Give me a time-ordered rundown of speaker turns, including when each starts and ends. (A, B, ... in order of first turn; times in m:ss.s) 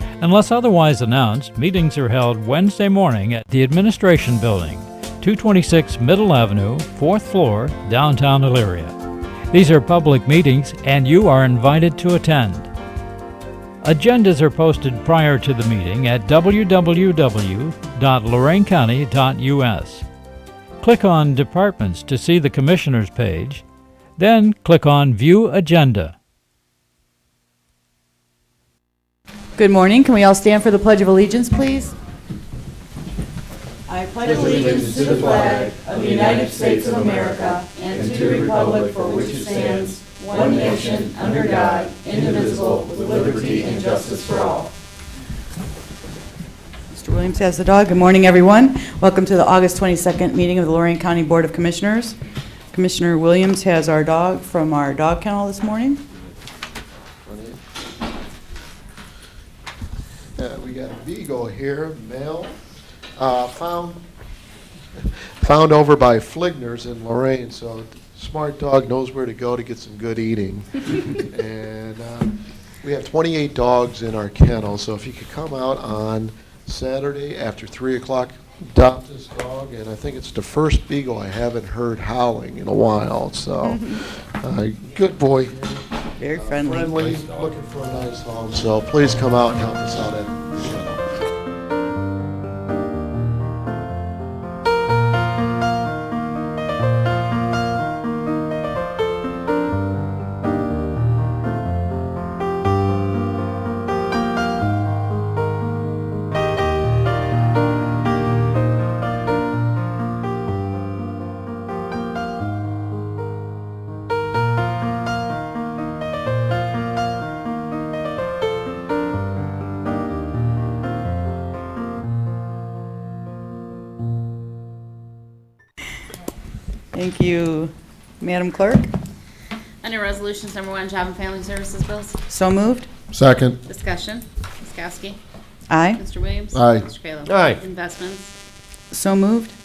0:00.2-0:08.9 A
0:09.5-0:12.7 A
0:13.8-0:20.0 A
0:20.8-0:23.6 A
0:24.2-0:26.1 A
0:29.6-0:32.0 B
0:33.9-0:44.7 B
0:46.9-0:52.2 B
0:52.7-0:56.0 B
0:57.2-0:57.6 C
1:00.4-1:02.5 C
1:03.2-1:04.0 C
1:05.0-1:25.8 C
1:23.6-1:24.0 B
1:26.2-1:27.2 B
1:26.4-1:31.0 C
2:06.9-2:08.9 B
2:09.8-2:12.2 D
2:12.3-2:12.9 B
2:13.1-2:13.6 C
2:13.6-2:15.2 D
2:15.7-2:16.0 B
2:15.9-2:18.3 D
2:16.5-2:16.9 C
2:18.9-2:19.5 B